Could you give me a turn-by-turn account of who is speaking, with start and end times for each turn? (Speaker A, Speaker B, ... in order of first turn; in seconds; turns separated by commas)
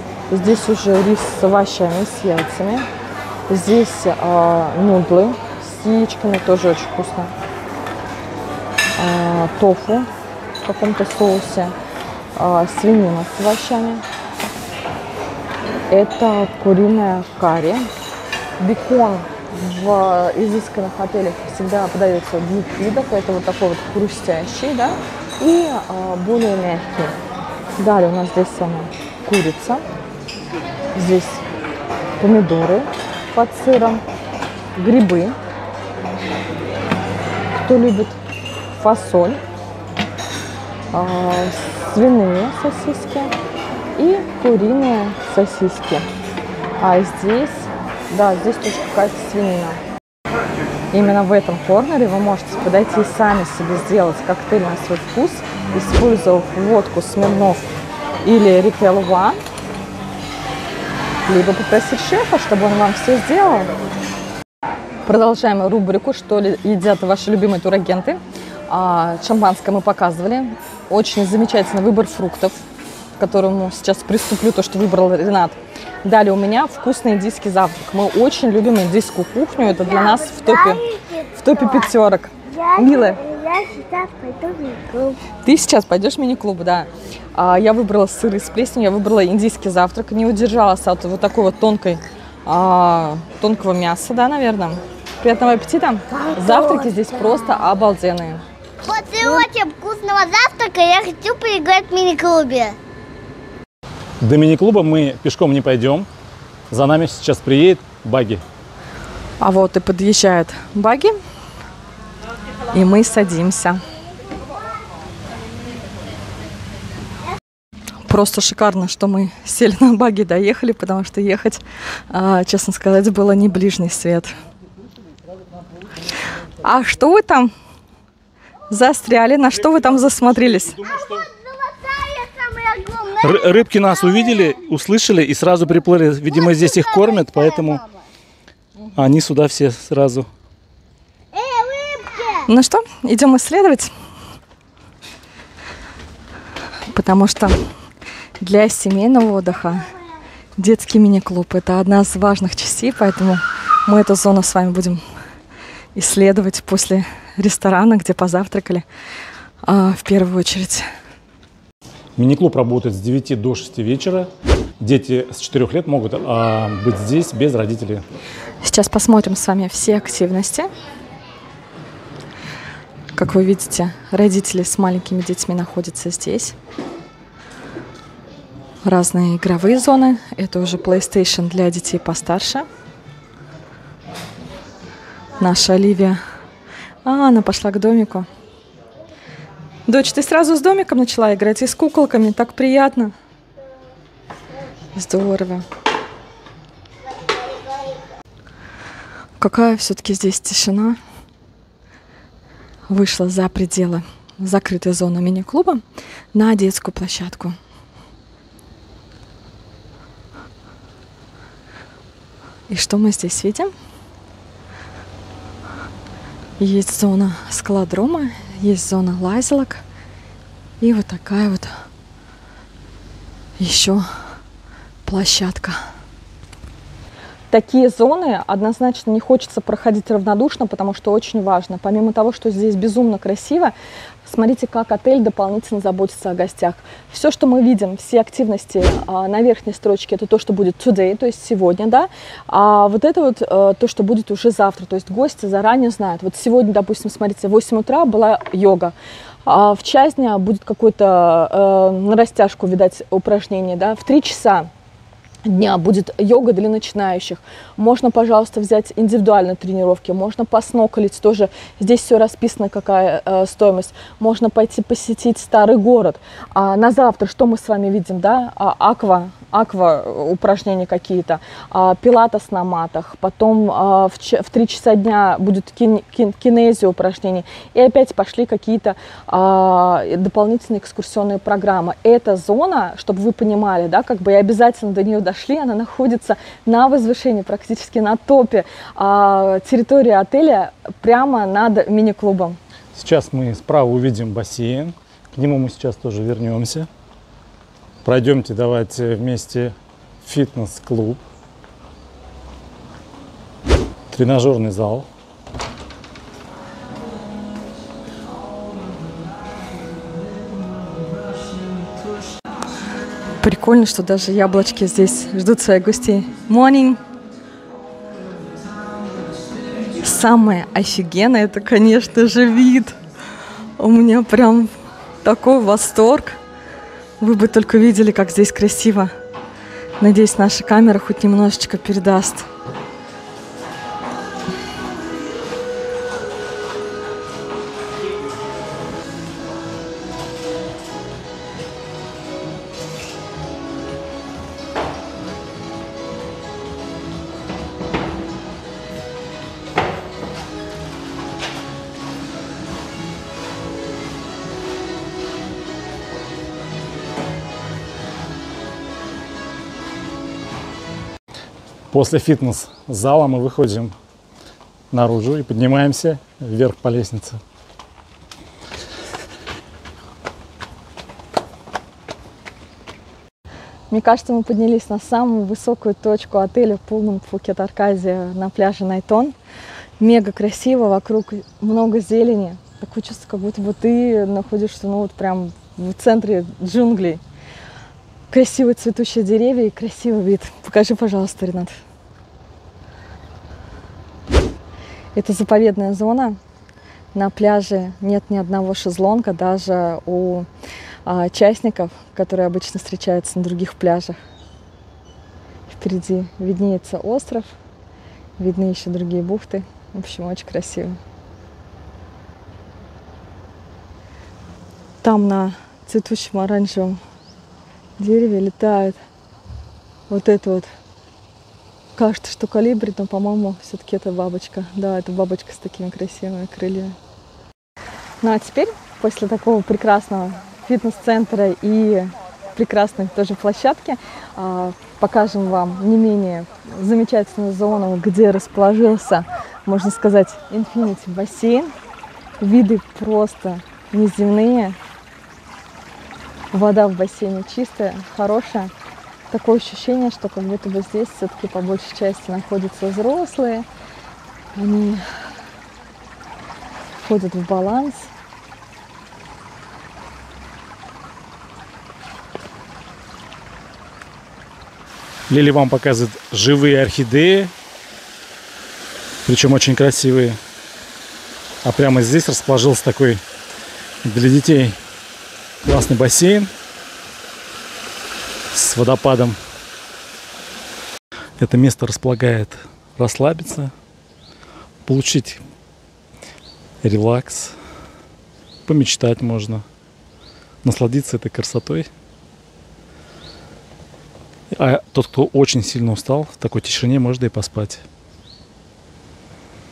Speaker A: 0.3-2.9, Speaker A: 3.5-7.3, Speaker A: 9.0-10.1, Speaker A: 10.6-11.7, Speaker A: 12.3-14.0, Speaker A: 15.9-17.9, Speaker A: 18.6-27.1, Speaker A: 27.8-29.8, Speaker A: 30.9-31.4, Speaker A: 32.2-34.0, Speaker A: 34.8-35.3, Speaker A: 37.5-38.2, Speaker A: 38.8-39.4, Speaker A: 40.9-43.3, Speaker A: 44.0-46.1, Speaker A: 46.8-49.8, Speaker A: 50.9-57.6, Speaker A: 58.2-59.4, Speaker A: 61.2-63.7, Speaker A: 65.1-72.6, Speaker A: 73.2-83.2, Speaker B: 79.7-81.9, Speaker B: 82.5-85.2, Speaker A: 85.4-98.4, Speaker B: 96.5-96.8, Speaker B: 98.8-102.8, Speaker C: 104.2-106.1, Speaker C: 106.7-108.4, Speaker A: 109.4-111.2, Speaker A: 112.7-113.8, Speaker A: 118.1-124.3, Speaker A: 126.6-127.5, Speaker A: 128.7-130.8, Speaker C: 129.7-131.2, Speaker B: 130.8-134.5, Speaker C: 133.2-137.8, Speaker B: 136.4-137.8, Speaker C: 138.9-140.3, Speaker B: 141.3-142.5, Speaker A: 142.4-143.9, Speaker A: 146.9-147.6, Speaker A: 148.4-149.9, Speaker A: 150.6-155.0, Speaker A: 155.9-158.8, Speaker A: 159.6-160.9, Speaker C: 162.2-168.0, Speaker A: 168.6-170.7, Speaker A: 173.2-176.6, Speaker A: 178.8-182.7, Speaker A: 185.4-186.2, Speaker A: 187.1-188.2, Speaker A: 189.9-193.1, Speaker A: 194.9-195.6, Speaker A: 199.4-201.0, Speaker A: 202.9-205.8, Speaker A: 206.3-207.6, Speaker A: 212.7-213.7, Speaker A: 216.6-219.8, Speaker A: 220.8-221.7, Speaker A: 223.6-224.1, Speaker A: 225.1-225.8, Speaker A: 227.5-233.7, Speaker A: 234.2-248.9, Speaker A: 249.4-254.7, Speaker A: 255.4-292.6, Speaker C: 292.9-296.9, Speaker C: 298.0-301.2, Speaker C: 304.1-305.1, Speaker A: 313.4-317.0, Speaker A: 320.0-323.0, Speaker A: 323.8-324.7, Speaker A: 325.2-326.4, Speaker A: 327.2-329.1, Speaker A: 330.0-332.5, Speaker C: 361.9-363.9, Speaker C: 364.9-367.4, Speaker A: 373.9-379.3, Speaker A: 380.0-387.2, Speaker A: 388.3-391.8, Speaker A: 395.1-396.4, Speaker A: 397.1-400.5, Speaker A: 401.1-404.2, Speaker A: 405.7-407.5, Speaker A: 408.4-411.0, Speaker A: 415.0-417.0, Speaker A: 418.0-419.0, Speaker A: 420.1-420.7, Speaker A: 421.9-426.9, Speaker A: 428.2-441.7, Speaker A: 442.4-444.8, Speaker A: 446.5-448.7, Speaker A: 449.3-453.7, Speaker A: 454.6-455.0, Speaker A: 457.1-458.1, Speaker C: 465.3-467.5, Speaker C: 469.2-470.4, Speaker C: 471.6-473.2, Speaker C: 474.0-474.8, Speaker C: 475.6-476.5, Speaker C: 478.5-479.4, Speaker C: 481.4-483.7, Speaker C: 484.8-485.4, Speaker C: 486.8-487.6, Speaker C: 488.7-489.6, Speaker C: 490.6-491.9, Speaker C: 494.5-497.8